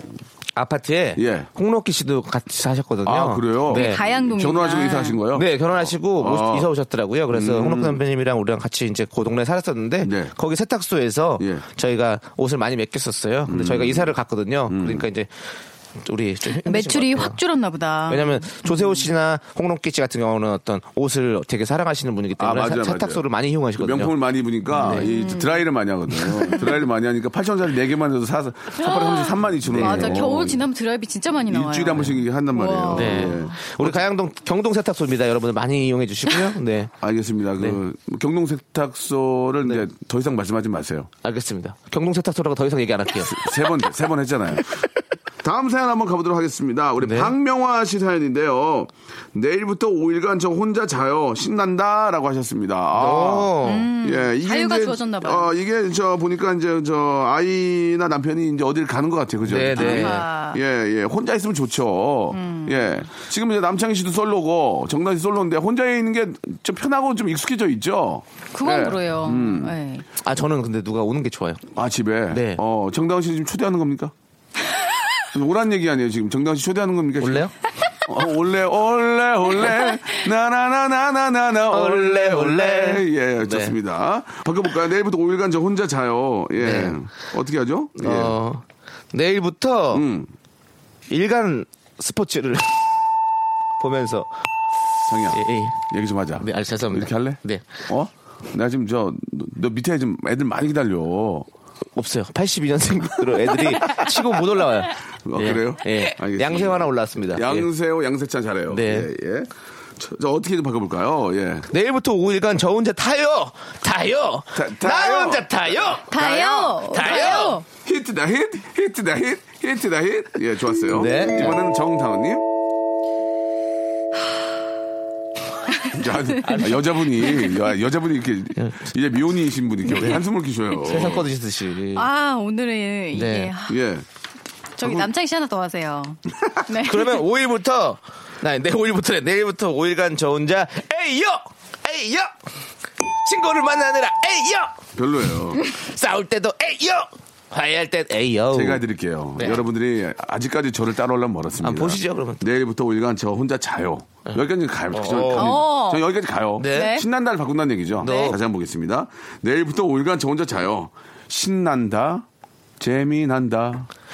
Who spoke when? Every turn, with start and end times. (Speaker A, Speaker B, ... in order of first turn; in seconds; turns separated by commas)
Speaker A: 0.6-4.0, Speaker B: 1.2-1.5, Speaker B: 3.0-6.7, Speaker C: 3.7-5.2, Speaker A: 5.3-15.4, Speaker B: 7.3-8.0, Speaker B: 10.0-10.3, Speaker B: 13.5-14.2, Speaker B: 14.7-15.1, Speaker A: 16.0-17.4, Speaker C: 16.6-19.1, Speaker A: 18.1-24.1, Speaker B: 22.4-23.2, Speaker B: 23.8-30.6, Speaker A: 24.7-25.1, Speaker C: 24.8-25.7, Speaker C: 28.8-33.5, Speaker A: 29.6-30.5, Speaker B: 31.5-34.0, Speaker A: 32.9-36.9, Speaker B: 37.0-41.1, Speaker A: 41.2-43.5, Speaker B: 43.2-44.8, Speaker B: 45.4-69.8, Speaker A: 47.0-47.3, Speaker A: 53.0-53.9, Speaker C: 53.6-55.5, Speaker A: 59.5-60.2, Speaker C: 59.8-60.6, Speaker C: 62.3-63.0, Speaker C: 68.5-70.1, Speaker A: 70.2-71.6, Speaker B: 71.7-74.1, Speaker A: 72.3-72.6, Speaker B: 75.3-77.5, Speaker A: 77.2-77.5, Speaker B: 78.1-88.4, Speaker A: 81.7-83.8, Speaker A: 86.6-87.0, Speaker A: 88.0-90.0, Speaker B: 89.9-90.3, Speaker A: 91.1-92.8, Speaker A: 93.8-94.3, Speaker B: 95.1-101.5, Speaker A: 95.3-95.8, Speaker A: 96.4-97.8, Speaker A: 102.0-107.7, Speaker B: 105.2-111.7, Speaker A: 108.7-109.1, Speaker A: 111.7-117.6, Speaker B: 114.5-122.5, Speaker C: 116.1-117.7, Speaker A: 120.9-121.6, Speaker B: 125.9-131.3, Speaker A: 126.4-126.8, Speaker A: 128.6-128.9, Speaker A: 129.9-130.2, Speaker A: 130.8-132.1, Speaker C: 132.0-133.8, Speaker A: 133.1-133.5, Speaker B: 133.7-134.1, Speaker C: 134.8-137.2, Speaker B: 134.8-135.1, Speaker A: 136.8-142.3, Speaker A: 143.2-144.8, Speaker B: 145.0-145.6, Speaker A: 145.6-148.8, Speaker B: 148.5-162.3, Speaker A: 149.4-149.6, Speaker A: 151.6-152.4, Speaker A: 154.9-155.6, Speaker C: 155.3-156.1, Speaker A: 156.6-157.0, Speaker C: 156.7-157.1, Speaker A: 158.0-158.4, Speaker C: 158.0-158.4, Speaker B: 162.8-163.9